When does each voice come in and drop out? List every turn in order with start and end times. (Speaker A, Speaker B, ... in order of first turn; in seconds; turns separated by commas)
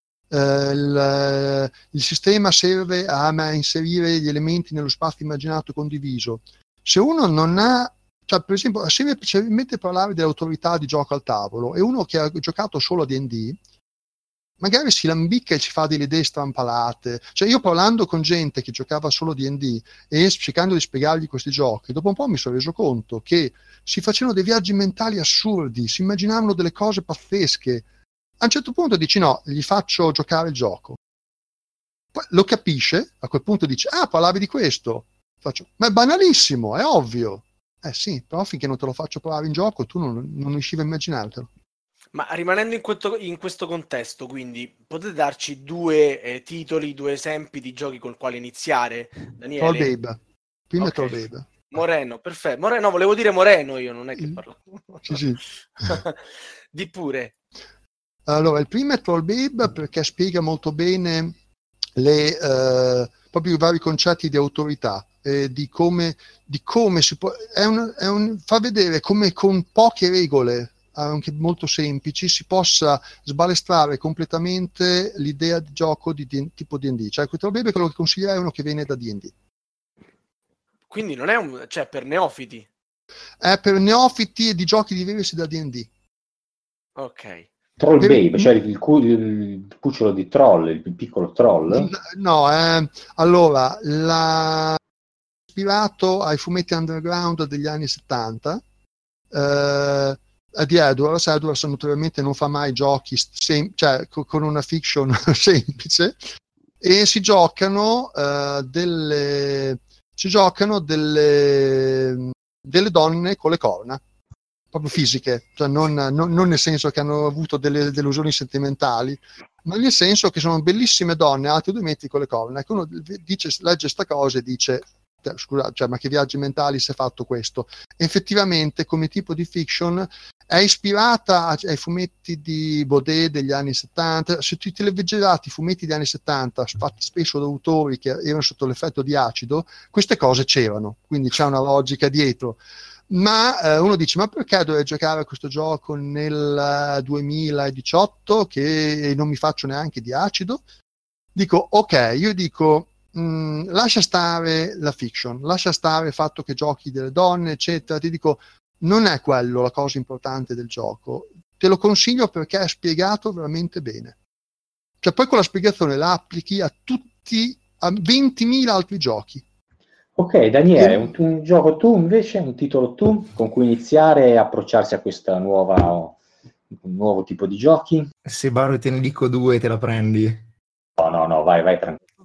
Speaker A: 0.3-13.6, Speaker A: 14.6-27.9, Speaker A: 28.4-31.0, Speaker A: 32.1-41.5, Speaker B: 42.1-49.9, Speaker A: 49.6-50.2, Speaker A: 50.7-51.5, Speaker B: 50.8-55.2, Speaker A: 55.0-56.0, Speaker B: 55.8-56.2, Speaker B: 56.7-57.3, Speaker A: 58.3-61.4, Speaker A: 62.0-79.3, Speaker B: 80.9-82.7, Speaker A: 83.4-85.9, Speaker B: 87.0-87.5, Speaker C: 87.8-91.9, Speaker A: 88.0-88.5, Speaker A: 91.7-94.8, Speaker A: 95.5-98.6, Speaker A: 99.3-106.2, Speaker A: 106.8-114.0, Speaker A: 114.7-150.6, Speaker A: 151.3-164.2, Speaker A: 165.0-169.4, Speaker C: 170.2-176.2, Speaker A: 170.8-171.1, Speaker C: 176.7-178.1, Speaker D: 178.2-180.5, Speaker C: 181.0-182.0